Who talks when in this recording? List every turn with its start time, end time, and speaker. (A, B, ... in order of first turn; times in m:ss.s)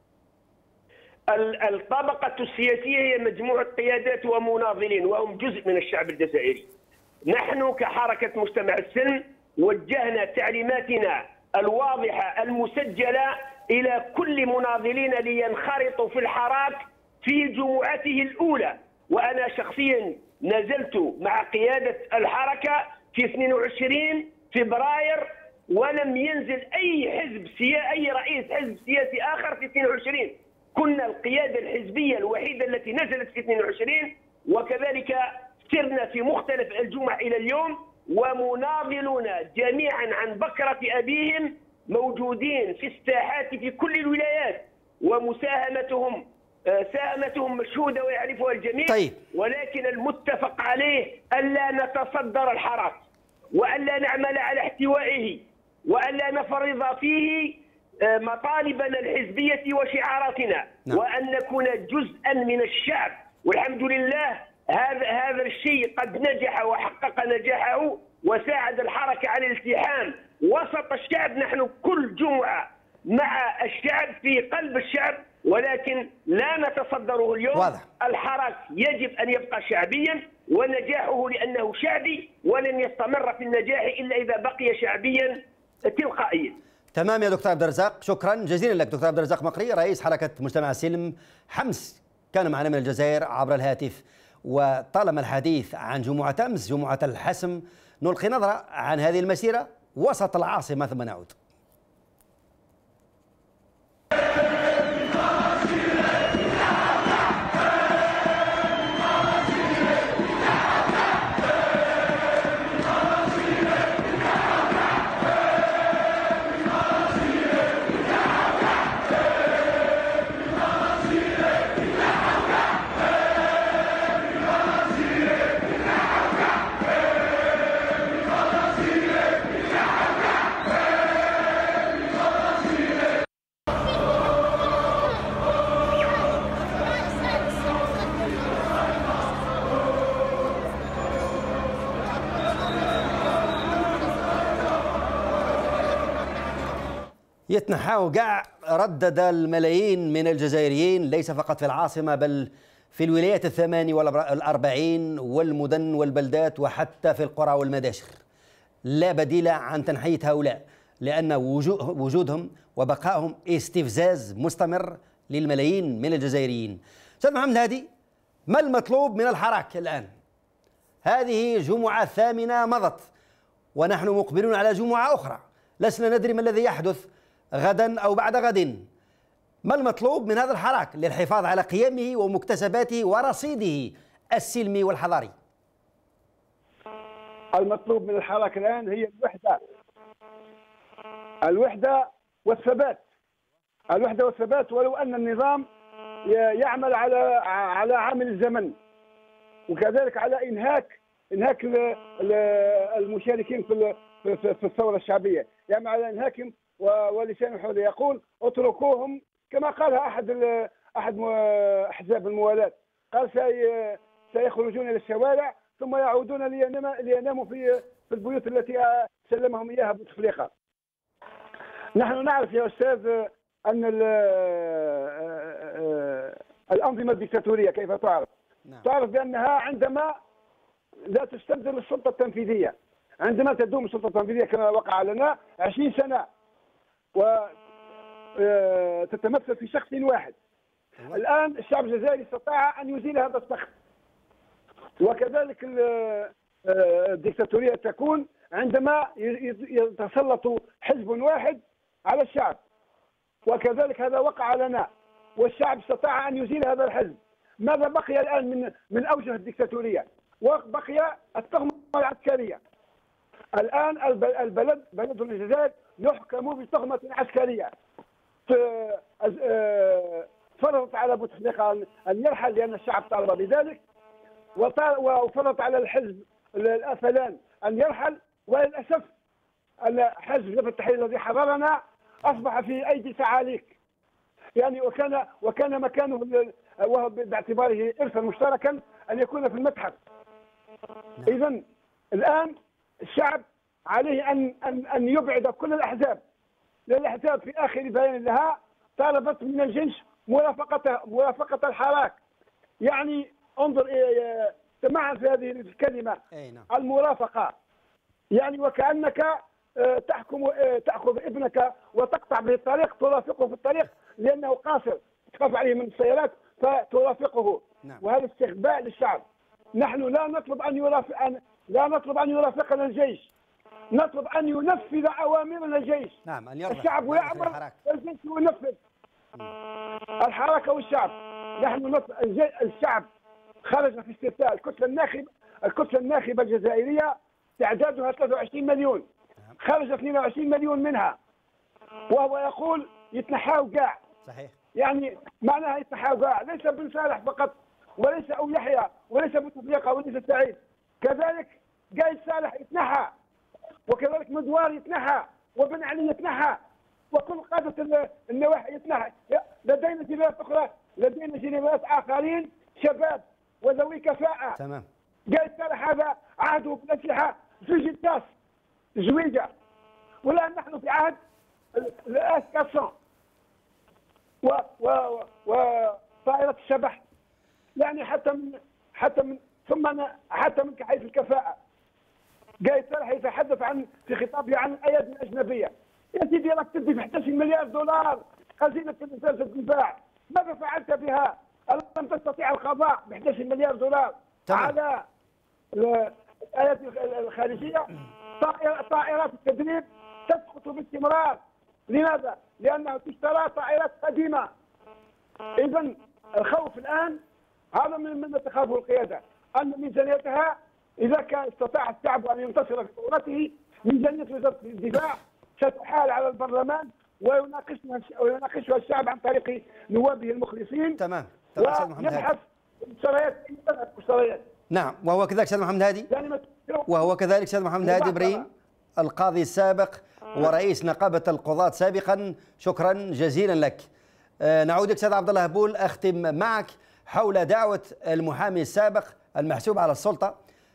0:01.3-0:06.7 A
0:07.3-1:26.6 A
0:48.9-0:49.2 B
1:17.5-1:17.8 B
1:26.9-1:41.4 B
2:27.5-2:38.2 B
2:38.8-2:47.9 B
2:48.5-2:50.1 B
2:51.0-2:53.1 B
2:53.8-2:58.9 B
2:59.6-3:05.3 B
3:07.6-3:09.6 C
3:11.4-3:13.0 C
3:13.9-3:15.6 C
3:16.3-3:18.7 C
3:19.7-3:40.5 C
3:42.0-3:48.3 C
3:48.8-3:50.2 C
3:51.1-3:56.3 C
3:57.1-3:57.5 C
3:58.4-4:00.3 C
4:01.1-4:03.7 C
4:05.0-4:12.6 C
4:13.4-4:22.6 C
4:23.6-4:27.7 C
4:28.5-4:33.8 C
4:34.6-4:39.1 C
4:39.8-4:43.7 C
4:44.6-4:50.0 C
4:51.3-4:51.6 C
4:52.1-4:52.5 C
4:53.0-4:56.2 C
4:56.9-5:02.2 C
5:02.8-5:07.5 C
5:06.3-5:06.7 B
5:08.3-5:19.2 C
5:19.8-5:23.3 C
5:23.9-5:26.2 C
5:26.2-5:27.8 B
5:26.7-5:28.8 C
5:30.2-5:33.1 C
5:33.6-5:39.0 C
5:39.6-5:41.2 C
5:42.1-5:43.9 C
5:44.2-5:44.5 B
5:44.8-5:53.1 C
5:53.9-5:56.6 C
5:57.1-6:04.6 C
6:04.6-6:04.8 B
6:05.3-6:08.3 C
6:09.0-6:09.5 C
6:10.2-6:11.2 C
6:11.7-6:12.9 C
6:14.4-6:17.0 C
6:17.8-6:21.6 C
6:22.6-6:35.0 C
6:34.5-6:34.7 B
6:35.7-6:44.5 C
6:45.6-6:47.2 C
6:47.7-7:01.0 C
7:01.0-7:02.3 B
7:01.6-7:04.4 C
7:04.7-7:06.1 B
7:06.1-7:07.1 C
7:06.9-7:08.5 B
7:07.8-7:08.4 C
7:09.0-7:13.9 B
7:14.4-7:20.3 B